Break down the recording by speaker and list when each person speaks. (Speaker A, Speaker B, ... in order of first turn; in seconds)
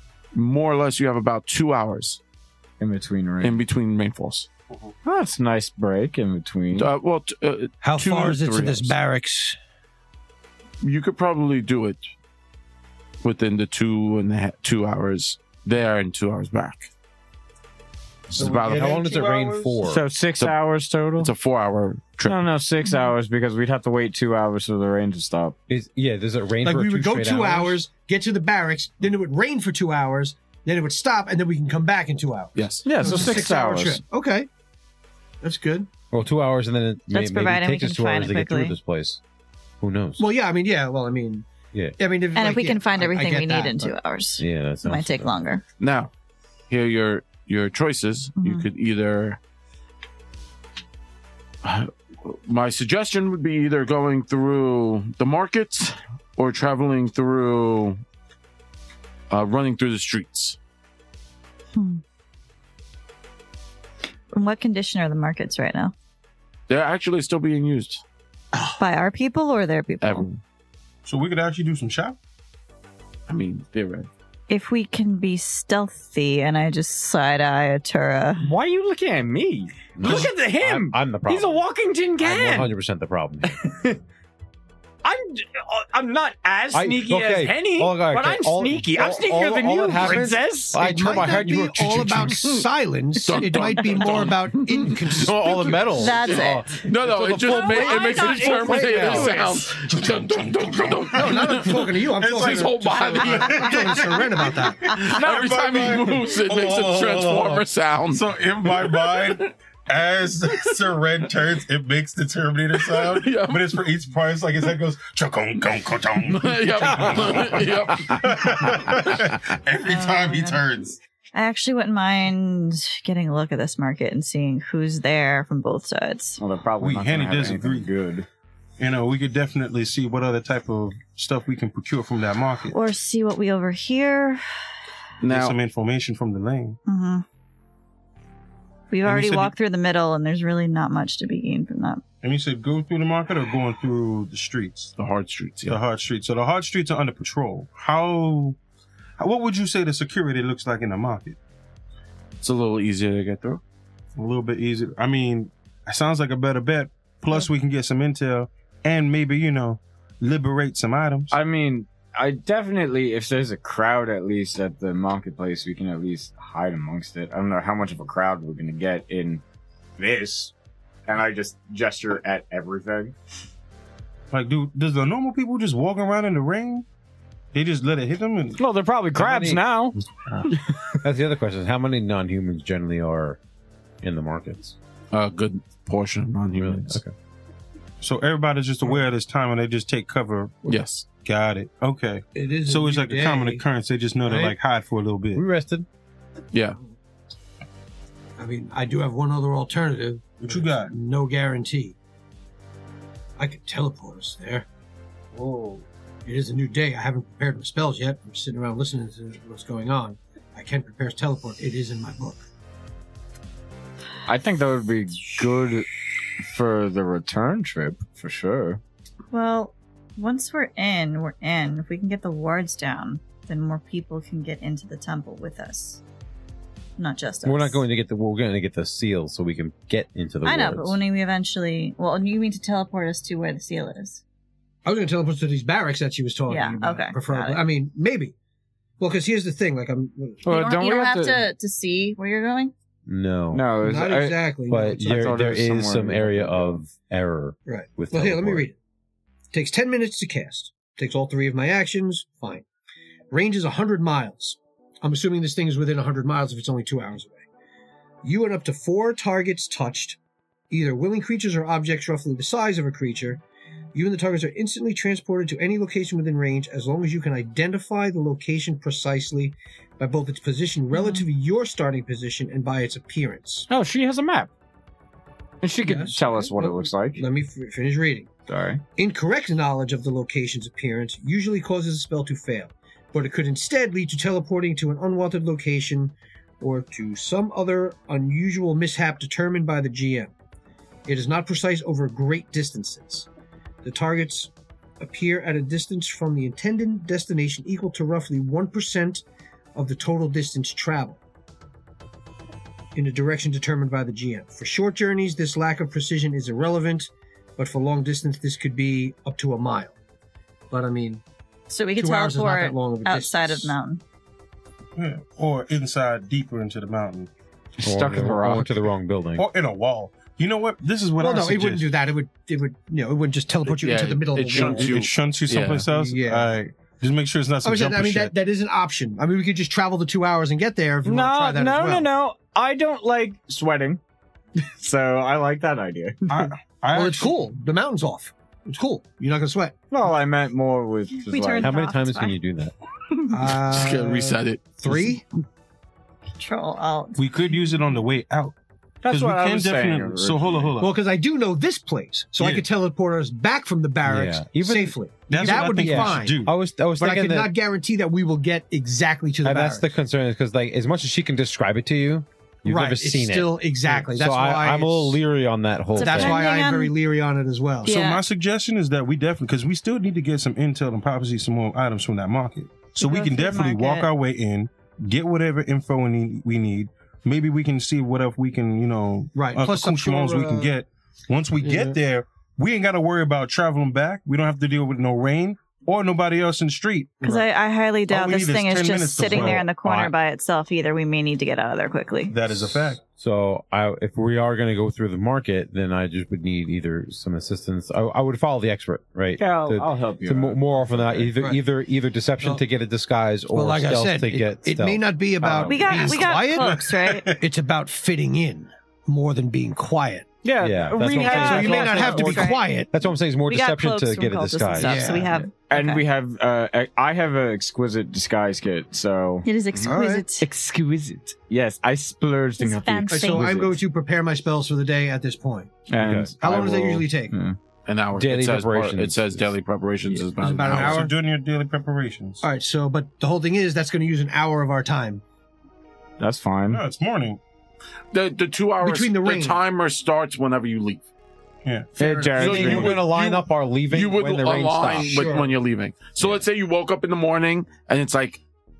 Speaker A: 0.3-2.2, 3.4-4.5, 6.7-8.9, 10.8-12.1, 13.2-16.9, 18.3-19.0, 21.2-22.4, 32.5-32.9, 45.8-46.1, 46.7-49.4, 51.6-58.0, 59.3-60.6, 66.7-68.0, 70.0-70.4, 73.3-74.1, 93.2-104.0, 104.8-109.3, 112.8-113.8, 116.3-119.1, 135.2-135.5, 145.0-145.8, 152.4-153.6, 185.1-187.0, 190.6-191.1, 196.5-196.8, 323.7-325.8, 343.7-345.0, 427.9-431.1, 438.1-441.0, 442.4-443.2, 443.9-448.4
Speaker B: 2.8-3.6, 5.0-6.9, 19.8-21.3, 22.2-25.6, 32.8-34.0, 78.4-82.7, 83.5-84.0, 85.0-90.8, 97.5-99.6, 126.4-128.3, 161.3-169.4, 170.0-170.5, 171.1-173.1, 178.6-180.0, 214.2-215.9, 216.4-218.8, 240.4-241.4, 243.5-244.4, 245.0-246.8, 273.7-274.5, 275.6-277.2, 278.5-278.8, 317.8-318.9, 331.0-334.0, 334.6-336.5, 339.9-341.7, 349.0-350.7, 399.4-401.3, 410.4-412.4, 415.5-419.5, 420.4-423.8, 425.9-427.6, 436.2-436.8, 442.0-443.0
Speaker C: 7.8-9.6, 26.6-34.5, 35.4-35.9, 40.2-41.5, 42.0-43.9, 90.0-96.1, 98.4-99.4, 101.2-104.9, 192.3-193.6, 194.3-194.5, 198.4-201.9, 203.4-204.7, 206.2-212.4, 234.8-238.3, 239.0-240.4, 243.8-245.4, 247.7-248.8, 249.5-252.6, 253.3-257.4, 258.2-260.2, 260.7-263.4, 263.9-273.7, 275.8-278.3, 279.0-290.3, 291.1-293.3, 293.8-299.2, 299.7-301.2, 302.9-309.9, 310.7-311.2, 312.0-313.7, 321.2-325.0, 325.9-326.5, 327.6-332.1, 336.9-339.7, 343.3-345.2, 350.8-356.4, 357.0-359.9, 362.6-365.2, 365.9-367.9, 379.3-380.7, 381.6-382.0, 403.5-410.3, 411.2-412.9, 414.8-415.3, 419.9-420.3, 423.1-425.9, 426.4-427.3, 430.3-431.1, 432.4-435.2, 438.8-439.6, 442.0-442.9, 444.9-445.5
Speaker D: 18.3-19.8, 71.0-72.2, 99.7-121.0, 126.8-127.9, 128.8-132.8, 135.3-136.8, 139.0-139.5, 142.2-144.9, 145.7-148.6, 149.2-151.4, 154.2-161.3, 174.3-176.8, 177.5-178.6, 188.0-195.4, 200.4-200.9, 205.3-205.8, 314.9-317.3, 319.4-321.9, 324.5-328.3, 336.3-337.4, 347.1-348.5, 349.1-350.9, 352.4-352.6, 355.3-356.5, 367.9-387.3, 388.1-389.7, 392.3-393.0, 406.6-407.4, 430.6-432.4, 436.7-437.4, 441.6-441.9, 442.5-443.4
Speaker E: 18.3-20.0, 25.7-27.8, 36.1-39.2, 39.8-40.2, 44.4-45.4, 80.0-81.6, 82.2-83.6, 86.7-92.6, 95.2-97.7, 98.8-99.2, 179.1-179.6, 181.0-183.4, 184.0-184.8, 186.6-187.1, 195.3-195.8, 227.4-231.0, 243.1-243.7, 244.7-248.7, 317.8-319.4, 341.6-342.7, 354.0-357.5, 359.4-366.4, 389.2-390.1, 393.2-406.1, 410.6-415.3, 426.0-426.3, 428.1-429.5, 442.4-445.3
Speaker F: 33.0-33.4, 37.1-38.7, 42.3-45.6, 48.4-48.6, 61.8-62.0, 64.3-65.9, 68.8-70.2, 74.5-78.5, 95.9-96.7, 97.5-98.7, 119.9-120.6, 121.3-126.4, 132.7-134.4, 136.8-137.2, 138.9-142.0, 219.3-226.0, 227.0-227.8, 230.4-234.2, 236.5-237.6, 240.5-242.7, 270.9-271.2, 311.7-314.0, 341.2-342.3, 346.4-347.3, 365.9-366.9, 367.8-368.2, 372.9-374.1, 387.2-392.3, 405.6-407.3, 411.1-412.7, 413.5-416.0, 419.4-420.5, 422.6-423.5